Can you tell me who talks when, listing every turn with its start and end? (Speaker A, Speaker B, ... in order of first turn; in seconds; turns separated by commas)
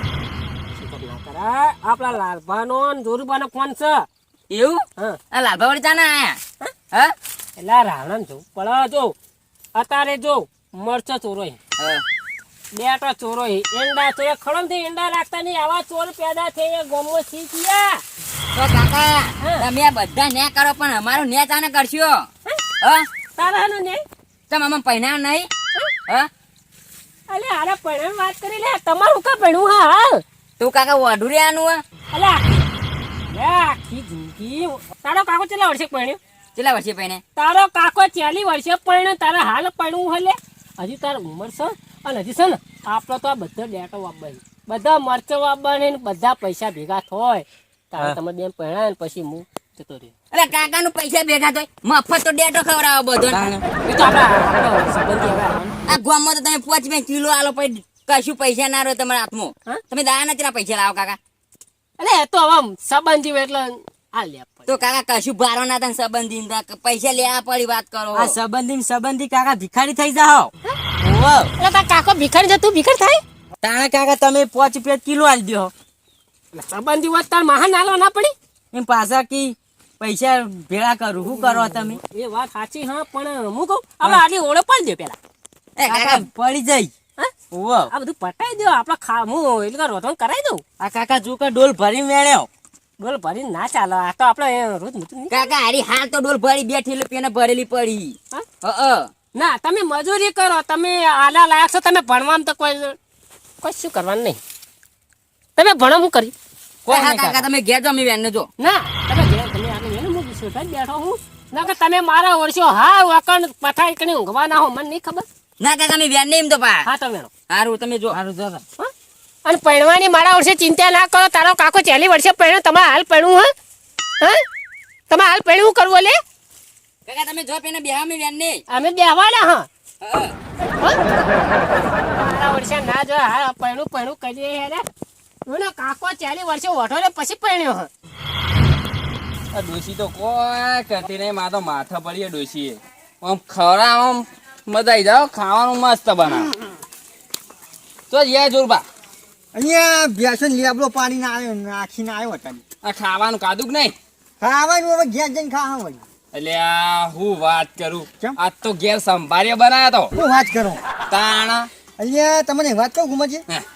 Speaker A: 0.8-4.1, Speaker B: 4.5-6.4, Speaker A: 7.6-9.2, Speaker A: 9.8-11.6, Speaker B: 11.8-12.0, Speaker A: 12.7-18.0, Speaker B: 18.5-22.3, Speaker A: 19.4-19.7, Speaker B: 22.8-23.1, Speaker A: 23.4-24.0, Speaker B: 24.5-25.5, Speaker A: 27.3-30.2, Speaker B: 30.6-31.8, Speaker A: 32.1-32.6, Speaker A: 33.3-36.2, Speaker B: 36.6-37.2, Speaker A: 37.4-50.1, Speaker B: 50.3-53.4, Speaker C: 53.3-53.6, Speaker A: 53.8-55.9, Speaker B: 55.9-61.2, Speaker A: 62.0-64.8, Speaker B: 64.7-68.4, Speaker C: 68.1-71.5, Speaker A: 71.6-73.2, Speaker C: 73.6-75.7, Speaker A: 76.5-78.3, Speaker C: 78.7-82.0, Speaker A: 81.2-85.2, Speaker B: 85.8-86.3, Speaker C: 85.8-86.9, Speaker C: 87.5-87.9, Speaker A: 87.9-90.6, Speaker C: 90.8-92.5, Speaker A: 93.0-95.4, Speaker B: 95.3-99.1, Speaker A: 99.3-103.0, Speaker A: 103.6-104.4, Speaker A: 105.5-106.3, Speaker B: 106.9-108.5, Speaker C: 106.9-107.4, Speaker A: 108.6-115.3, Speaker B: 115.6-116.9, Speaker A: 116.8-117.3, Speaker B: 117.5-118.2, Speaker C: 118.1-118.6, Speaker A: 119.5-123.5, Speaker A: 125.1-126.2, Speaker B: 127.0-128.6, Speaker A: 128.7-129.7, Speaker B: 130.0-130.3, Speaker A: 130.8-134.8, Speaker A: 135.5-137.9, Speaker D: 139.5-146.5, Speaker D: 148.1-148.8, Speaker E: 149.5-152.6, Speaker D: 152.8-154.0, Speaker E: 154.4-156.0, Speaker D: 156.3-160.1, Speaker E: 160.2-160.8, Speaker D: 161.1-161.7, Speaker E: 162.0-163.4